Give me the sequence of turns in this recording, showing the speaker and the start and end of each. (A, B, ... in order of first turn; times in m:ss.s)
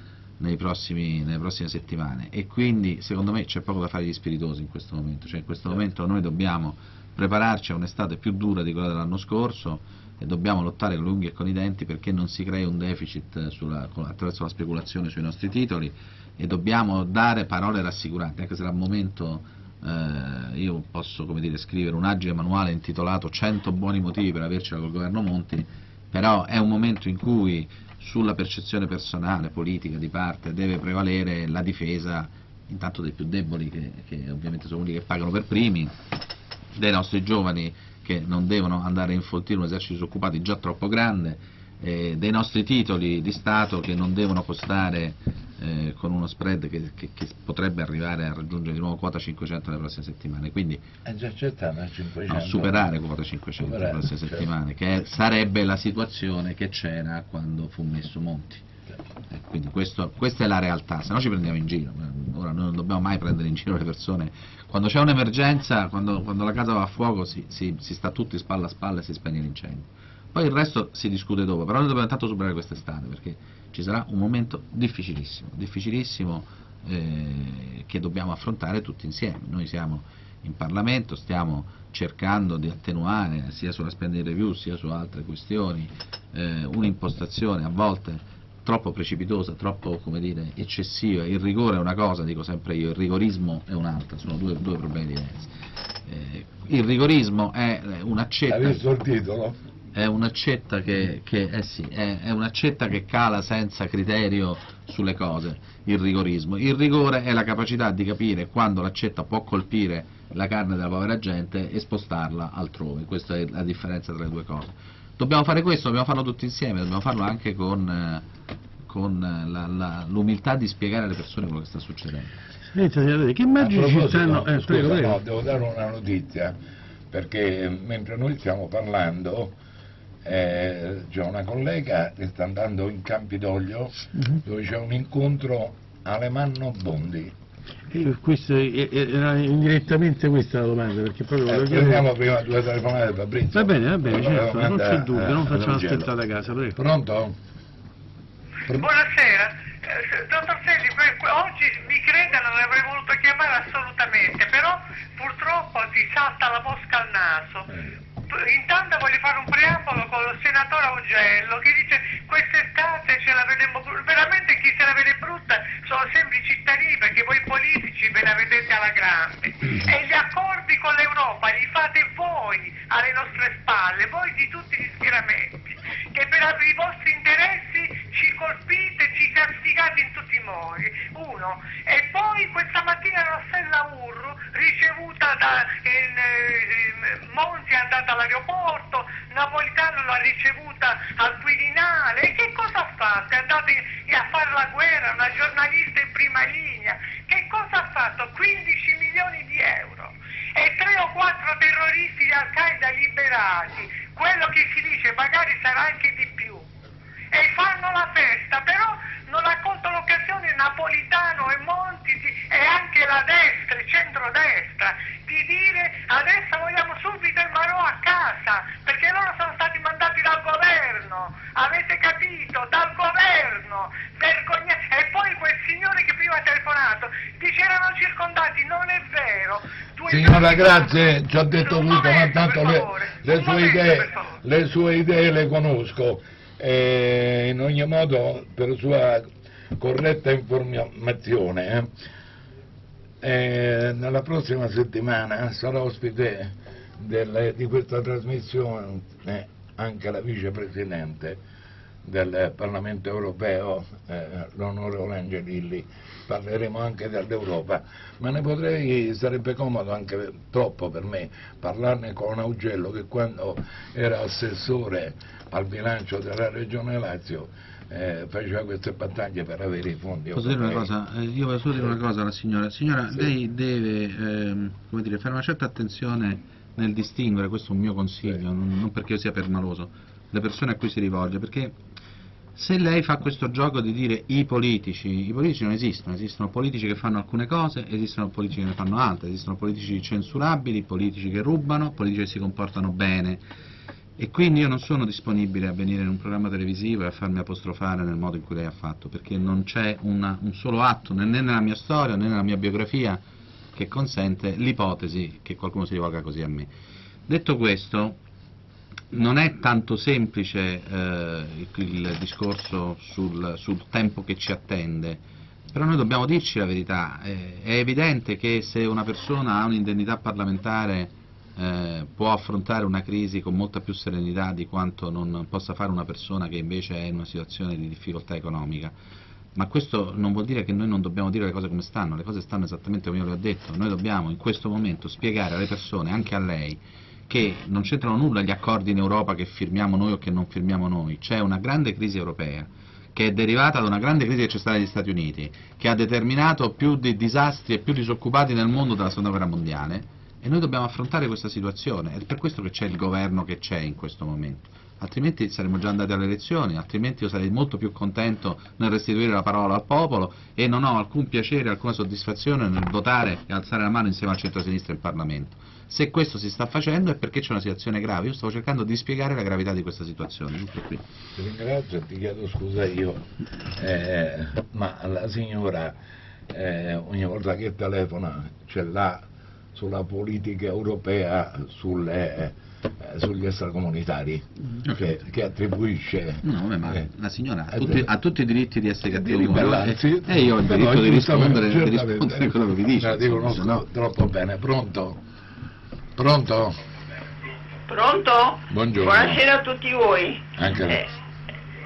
0:00.4-0:35.9 A
0:36.8-0:50.8 A
0:51.0-0:52.8 B
0:52.3-0:58.6 A
0:53.6-0:54.5 B
0:59.3-1:35.5 A
1:36.0-1:38.8 A
1:38.5-1:39.6 B
1:39.9-1:58.2 A
1:58.8-2:02.3 A
2:02.7-2:05.2 C
2:03.6-2:06.6 B
2:07.1-2:09.5 B
2:10.2-2:17.3 B
2:14.1-2:14.4 C
2:17.9-2:22.1 C
2:21.4-2:26.1 B
2:23.5-2:26.8 C
2:26.8-2:27.4 B
2:28.7-2:37.7 D
2:38.3-2:55.6 D
2:56.1-3:26.6 D
3:27.3-3:51.0 D
3:50.1-4:01.9 B
3:51.6-3:54.4 D
4:03.2-4:11.4 B
4:12.0-4:30.9 B
4:30.3-4:41.7 A
4:42.6-4:53.4 A
4:54.2-5:03.2 A
5:03.7-5:06.7 A
5:07.3-5:08.2 A
5:09.1-5:15.2 A
5:15.7-5:28.9 A
5:29.5-6:11.0 A
6:11.3-6:16.0 B
6:16.5-6:19.2 B
6:19.7-6:27.0 B
6:26.4-6:33.8 A
6:27.7-6:28.1 B
6:29.1-6:35.2 B
6:36.2-6:36.8 B
6:37.9-6:41.1 E
6:38.7-6:39.4 B
6:40.6-6:41.0 B